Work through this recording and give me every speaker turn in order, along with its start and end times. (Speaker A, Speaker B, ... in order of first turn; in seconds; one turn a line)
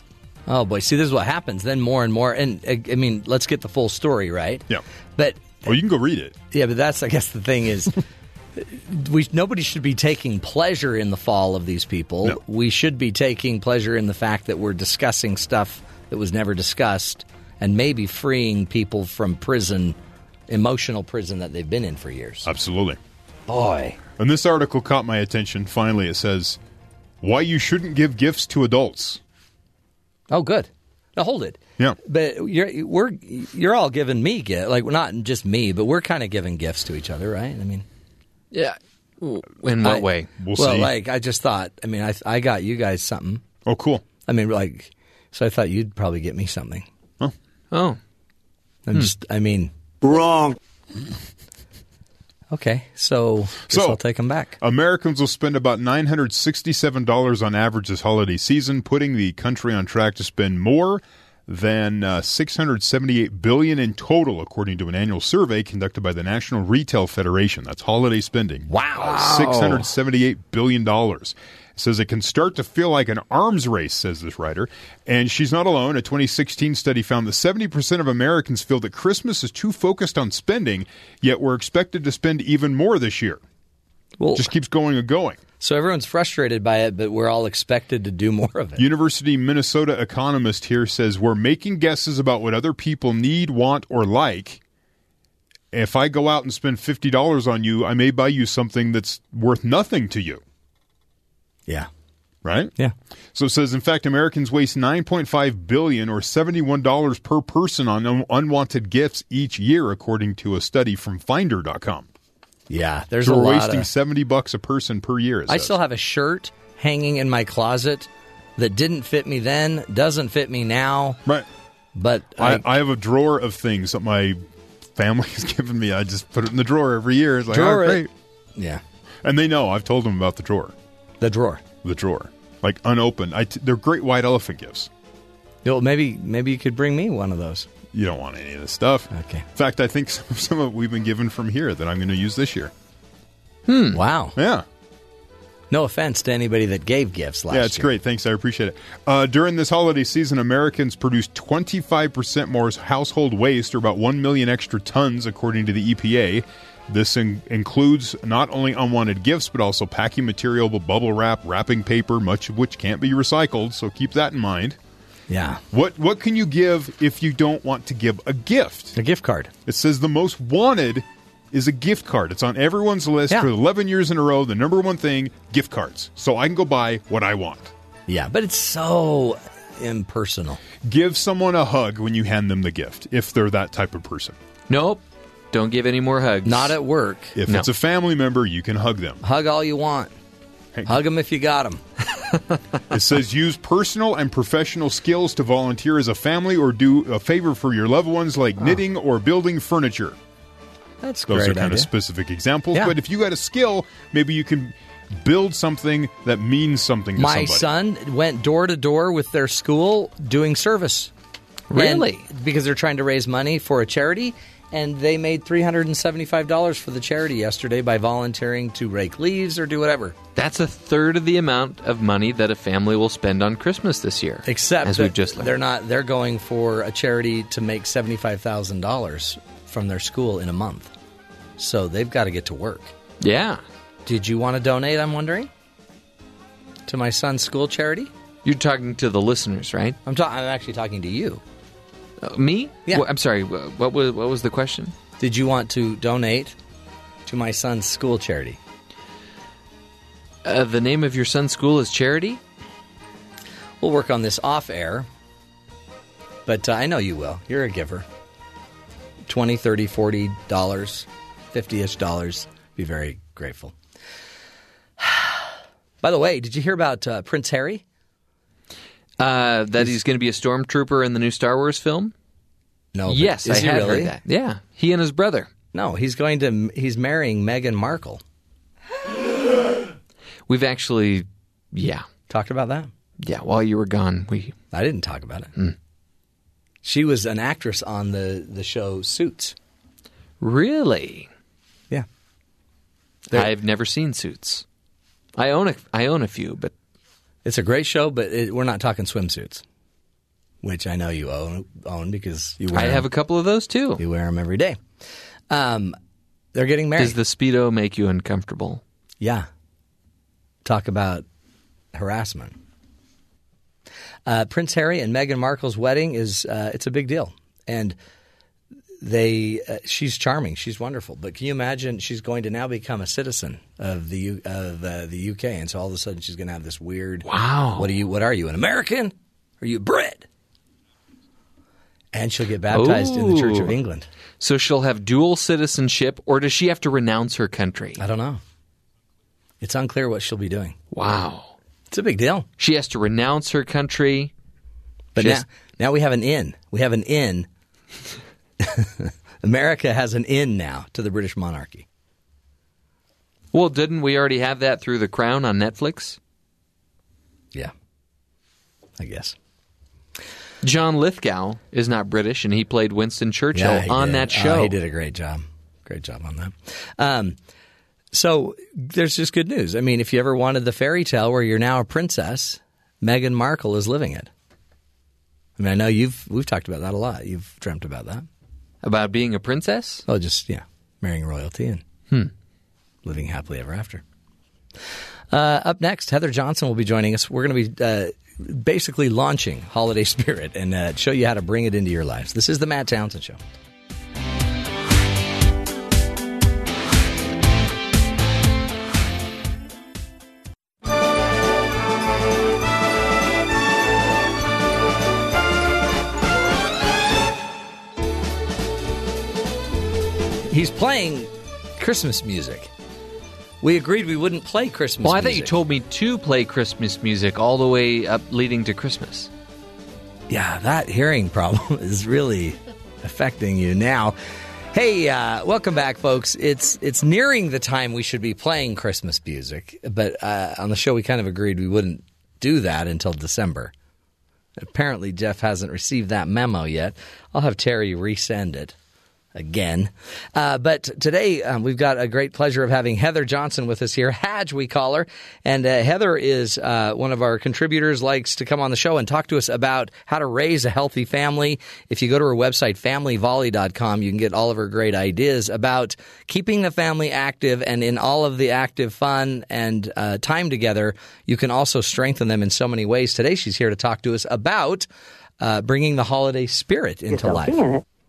Speaker A: 0.5-4.6
Speaker A: 5.2-5.7
Speaker B: 5.6-6.3
Speaker A: 6.5-8.0
Speaker A: 8.6-19.9
Speaker A: 20.5-22.5
Speaker B: 22.4-23.0
Speaker A: 23.5-24.0
Speaker B: 24.2-26.6
Speaker B: 27.2-29.2
Speaker A: 30.3-37.8
Speaker C: 38.5-40.3
Speaker B: 40.4-40.9
Speaker A: 40.5-43.4
Speaker B: 43.6-44.0
Speaker A: 44.3-46.9
Speaker C: 47.7-48.0
Speaker A: 48.9-50.4
Speaker A: 52.5-54.5
Speaker B: 53.7-54.0
Speaker B: 54.6-83.4
Speaker A: 68.7-69.8
Speaker A: 84.2-84.5
Speaker B: 84.3-85.4
Speaker A: 85.6-88.8
Speaker B: 88.8-94.6
Speaker B: 95.7-100.4
Speaker B: 102.4-102.7
Speaker B: 103.3-112.1
Speaker A: 112.7-113.9
Speaker B: 113.2-115.7
Speaker A: 115.5-121.2
Speaker A: 122.0-122.6
Speaker B: 122.4-124.4
Speaker B: 124.9-128.1
Speaker A: 127.5-128.8
Speaker B: 129.2-130.7
Speaker A: 131.2-131.6
Speaker B: 131.8-134.9
Speaker A: 135.6-137.7
Speaker B: 137.9-142.7
Speaker A: 139.1-139.4
Speaker C: 143.7-144.0
Speaker A: 143.9-144.3
Speaker B: 144.3-144.6
Speaker A: 145.7-147.9
Speaker B: 147.5-164.8
Speaker A: 165.3-165.6
Speaker B: 165.7-168.9
Speaker A: 168.9-169.5
Speaker B: 169.7-177.7
Speaker A: 178.1-180.6
Speaker B: 180.8-184.4
Speaker C: 184.7-186.8
Speaker A: 186.4-187.3
Speaker B: 187.4-189.2
Speaker A: 189.2-190.2
Speaker A: 190.8-191.8
Speaker C: 192.2-192.6
Speaker B: 192.9-200.2
Speaker A: 201.0-201.9
Speaker B: 201.3-207.7
Speaker A: 207.2-211.1
Speaker C: 211.7-212.3
Speaker A: 211.7-220.2
Speaker C: 220.3-225.5
Speaker A: 224.4-230.9
Speaker A: 231.6-232.9
Speaker C: 233.2-233.6
Speaker A: 234.1-235.5
Speaker A: 236.9-238.1
Speaker C: 238.4-240.0
Speaker A: 240.1-241.4
Speaker C: 242.2-244.9
Speaker A: 245.2-246.6
Speaker A: 247.3-248.6
Speaker C: 250.4-252.4
Speaker A: 253.8-255.1
Speaker A: 256.4-258.1
Speaker A: 259.3-263.7
Speaker A: 265.0-267.8
Speaker C: 269.2-272.1
Speaker A: 272.9-274.1
Speaker C: 273.1-275.5
Speaker A: 275.7-278.2
Speaker C: 280.5-282.1
Speaker A: 282.3-282.9
Speaker C: 283.2-284.6
Speaker A: 284.7-285.5
Speaker A: 286.8-289.6
Speaker C: 290.4-291.3
Speaker C: 293.3-294.6
Speaker C: 295.4-296.7
Speaker A: 297.4-299.6
Speaker A: 300.6-303.1
Speaker C: 302.7-304.0
Speaker A: 304.0-304.8
Speaker A: 305.5-306.0
Speaker A: 306.5-307.2
Speaker C: 306.9-308.8
Speaker A: 309.2-309.5
Speaker A: 310.6-311.2
Speaker A: 311.9-312.6
Speaker A: 314.3-317.9
Speaker A: 319.0-330.3
Speaker C: 327.2-327.9
Speaker A: 332.1-334.1
Speaker C: 332.7-333.7
Speaker C: 334.4-338.0
Speaker A: 338.0-338.4
Speaker A: 339.6-340.8
Speaker C: 340.9-341.6
Speaker A: 341.9-342.5
Speaker C: 342.6-344.3
Speaker A: 345.1-347.5
Speaker C: 345.1-345.4
Speaker A: 348.6-351.9
Speaker C: 353.5-356.2
Speaker A: 359.0-359.4
Speaker C: 360.6-364.8
Speaker A: 363.6-367.4
Speaker A: 368.1-374.3
Speaker A: 375.6-378.3
Speaker C: 378.8-380.1
Speaker A: 380.1-381.8
Speaker A: 383.0-384.0
Speaker A: 385.3-393.4
Speaker A: 410.5-412.7
Speaker A: 413.6-415.6
Speaker C: 415.0-419.3
Speaker A: 420.3-424.1
Speaker A: 424.7-433.7
Speaker A: 434.6-438.7
Speaker A: 439.3-464.9
Speaker A: 465.4-467.7